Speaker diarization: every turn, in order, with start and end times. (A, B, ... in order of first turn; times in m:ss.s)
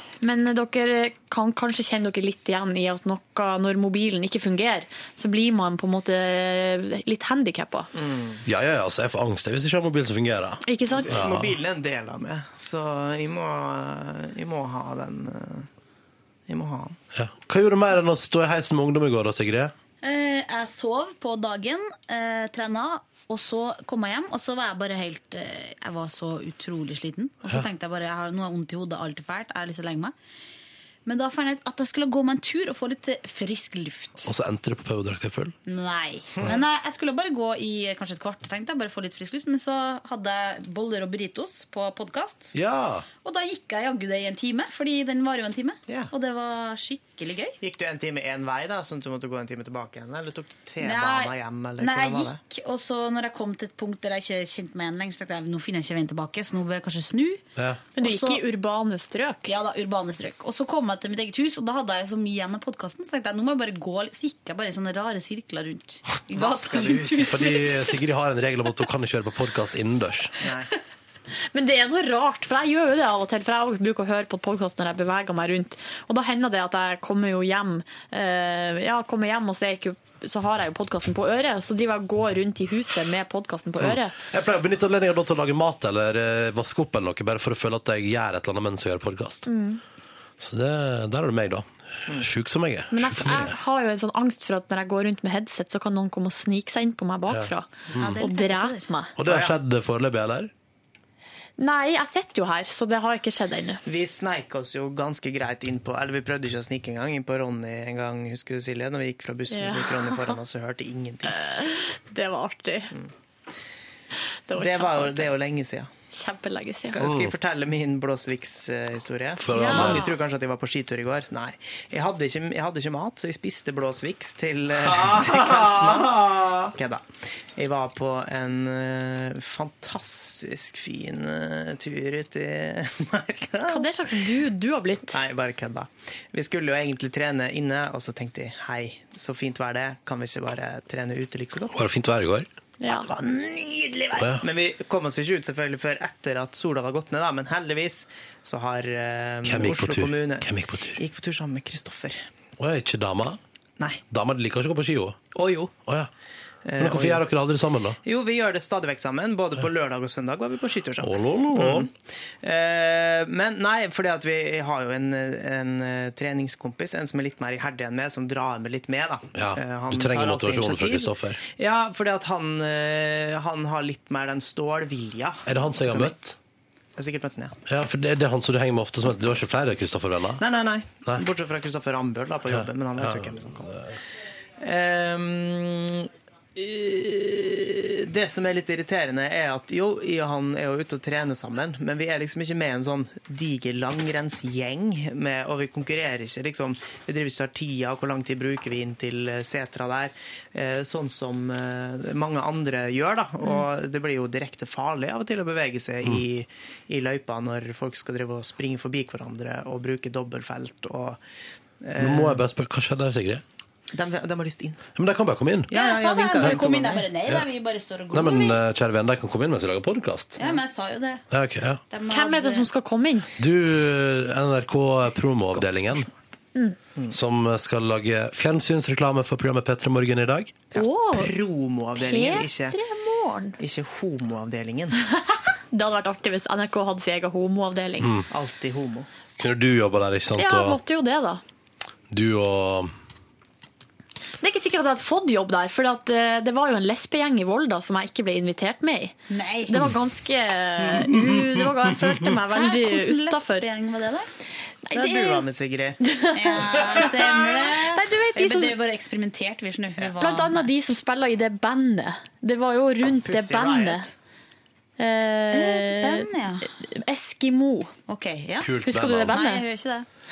0:00.2-0:07.9 A
0:07.9-0:08.4 B
0:08.4-0:11.5 C
0:10.6-0:11.2 A
0:10.9-0:15.7 B
0:16.5-0:17.0 B
0:17.1-0:19.7 C
0:20.0-0:30.1 D
0:31.0-0:34.3 D
0:34.2-0:35.6 C
0:35.6-0:42.5 D
0:42.5-0:43.0 C
0:43.2-0:47.6 D
0:47.6-0:52.4 B
0:50.8-0:57.4 D
0:57.6-0:57.8 C
0:58.0-0:59.5 A
0:58.0-0:58.4 D
0:59.4-1:07.8 D
1:06.3-1:07.4 B
1:07.2-1:10.4 C
1:10.4-1:10.7 B
1:11.5-1:24.1 A
1:23.8-1:29.5 C
1:29.4-1:29.8 A
1:30.4-1:33.5 C
1:32.9-1:39.1 A
1:37.3-1:38.2 C
1:37.9-1:38.9 D
1:39.2-1:40.5 C
1:39.2-1:39.5 B
1:41.6-1:43.8 A
1:43.8-1:51.4 B
1:49.5-1:50.4 A
1:51.2-1:52.9 A
1:54.5-1:55.3 A
1:54.5-1:55.9 B
1:56.1-1:57.0 A
1:56.9-2:13.9 B
1:57.0-1:57.3 C
1:59.4-2:00.0 C
1:59.5-2:00.1 A
2:04.8-2:06.7 C
2:13.7-2:15.2 A
2:15.1-2:21.7 B
2:21.7-2:22.5 C
2:22.8-2:23.1 A
2:22.9-2:32.2 B
2:24.2-2:24.4 C
2:29.4-2:31.0 C
2:32.6-2:33.4 C
2:34.1-2:35.2 C
2:35.3-2:35.7 B
2:36.6-2:37.2 B
2:36.8-2:38.0 C
2:38.0-2:41.9 B
2:41.0-2:41.9 C
2:42.4-2:56.1 B
2:49.3-2:51.4 C
2:55.4-2:56.4 C
2:57.0-2:57.6 B
2:57.6-3:00.4 C
3:00.4-3:03.8 B
3:02.5-3:03.9 C
3:04.6-3:31.2 B
3:31.8-3:32.4 B
3:32.0-3:33.4 C
3:33.9-3:34.8 B
3:35.0-3:35.7 C
3:35.7-3:37.0 B
3:35.7-3:38.6 D
3:38.1-3:40.4 C
3:40.4-3:41.2 D
3:41.3-3:41.8 C
3:41.9-3:42.7 D
3:42.1-3:43.3 A
3:43.4-3:46.1 C
3:45.6-3:46.0 B
3:47.1-3:50.6 C
3:50.7-3:51.3 A
3:50.7-3:52.8 B
3:52.0-3:53.6 A
3:53.6-3:55.0 B
3:55.7-3:58.1 A
3:58.0-3:58.2 C
3:58.3-3:59.1 B
3:59.4-4:00.8 C
4:00.4-4:01.4 A
4:02.1-4:02.9 C
4:04.4-4:13.7 A
4:09.3-4:09.9 D
4:12.5-4:14.3 D
4:14.8-4:15.4 A
4:14.9-4:16.0 B
4:16.0-4:18.8 A
4:16.3-4:20.7 D
4:20.2-4:24.1 A
4:23.0-4:24.1 B
4:25.0-4:26.3 A
4:25.5-4:26.7 D
4:26.8-4:27.9 A
4:28.1-4:28.8 D
4:28.6-4:29.4 C
4:28.8-4:29.6 A
4:29.3-4:30.0 D